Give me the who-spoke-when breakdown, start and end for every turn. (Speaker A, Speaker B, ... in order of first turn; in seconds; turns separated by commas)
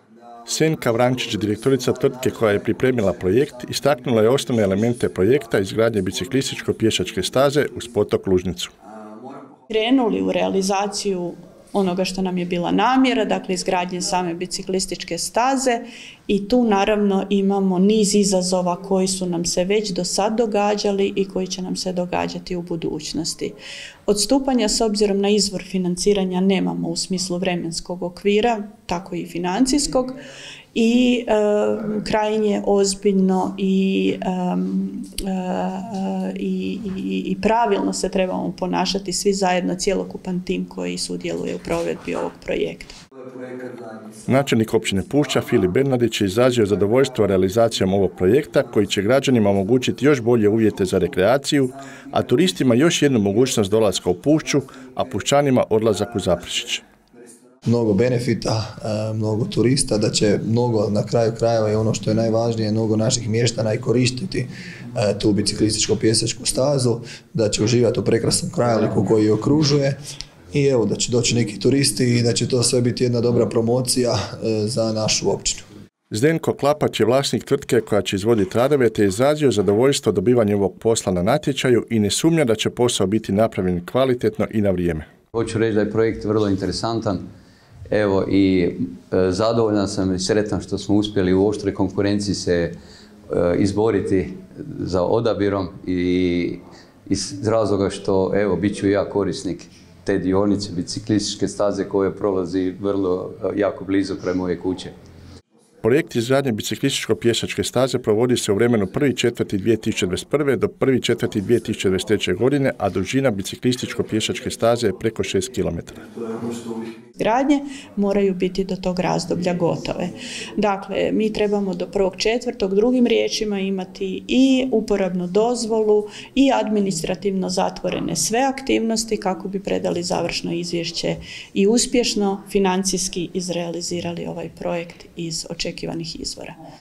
Speaker A: 0.5-8.7, Speaker B: 9.7-30.2, Speaker B: 30.7-43.0, Speaker A: 44.3-56.8, Speaker C: 57.6-70.0, Speaker C: 70.5-75.7, Speaker A: 76.1-85.1, Speaker D: 85.3-87.2, Speaker D: 87.9-92.8, Speaker D: 93.3-104.9, Speaker A: 105.8-116.0, Speaker B: 117.2-136.5